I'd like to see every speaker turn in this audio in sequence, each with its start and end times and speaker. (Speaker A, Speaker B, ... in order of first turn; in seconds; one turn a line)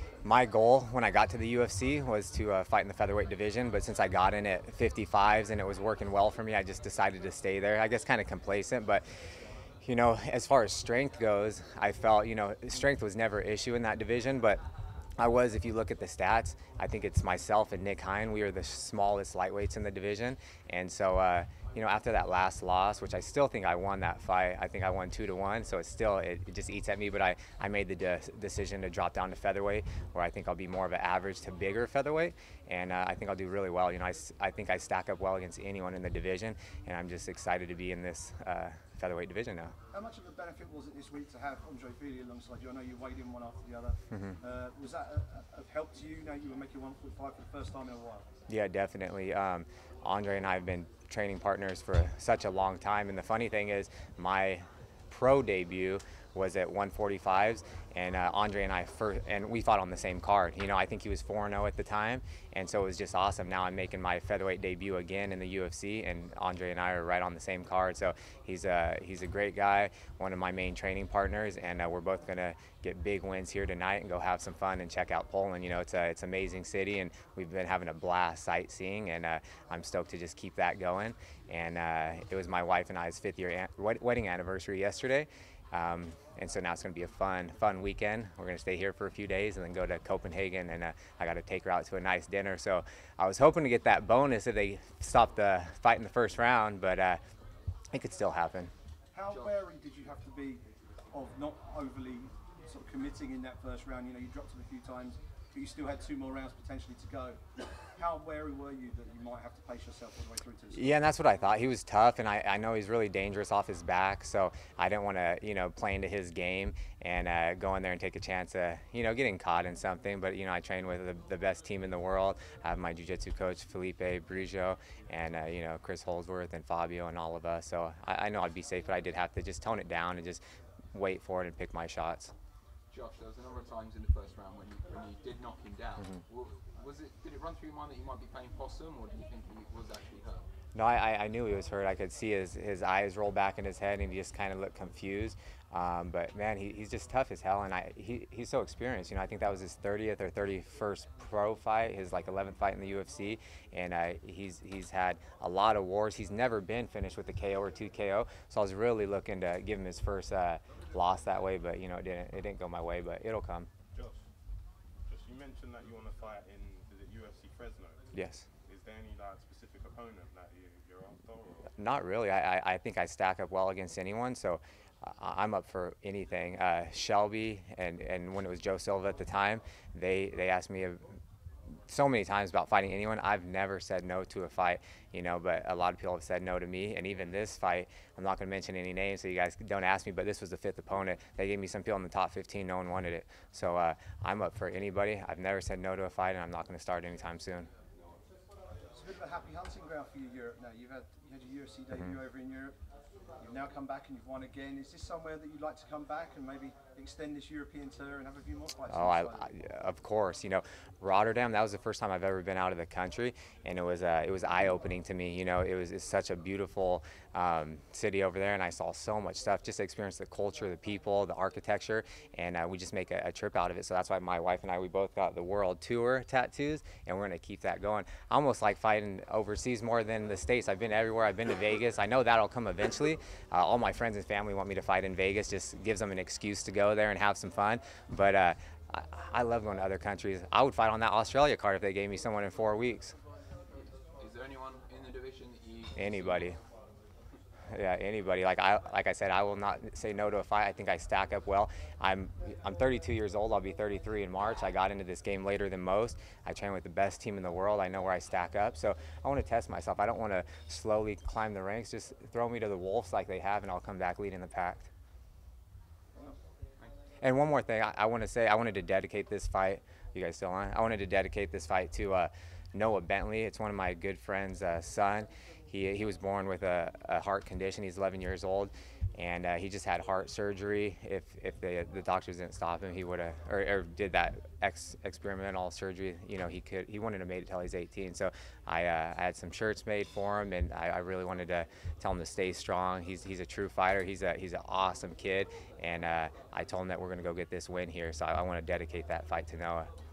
Speaker A: 0.2-9.1
Speaker A: 9.8-14.6
Speaker A: 15.2-39.7
Speaker B: 39.9-48.3
Speaker A: 48.5-97.2
Speaker A: 97.9-98.7
Speaker B: 99.1-107.4
Speaker B: 108.0-111.0
Speaker A: 110.7-130.4
Speaker A: 130.9-132.3
Speaker C: 132.9-140.4
Speaker A: 140.8-163.7
Speaker D: 163.9-164.2
Speaker D: 165.1-168.0
Speaker A: 168.1-168.4
Speaker D: 168.7-171.7
Speaker A: 171.8-181.1
Speaker A: 181.9-197.7
Speaker B: 198.9-202.8
Speaker B: 203.4-209.5
Speaker A: 208.9-243.2
Speaker C: 243.7-246.6
Speaker A: 246.0-246.6
Speaker A: 247.7-264.9
Speaker A: 267.2-299.9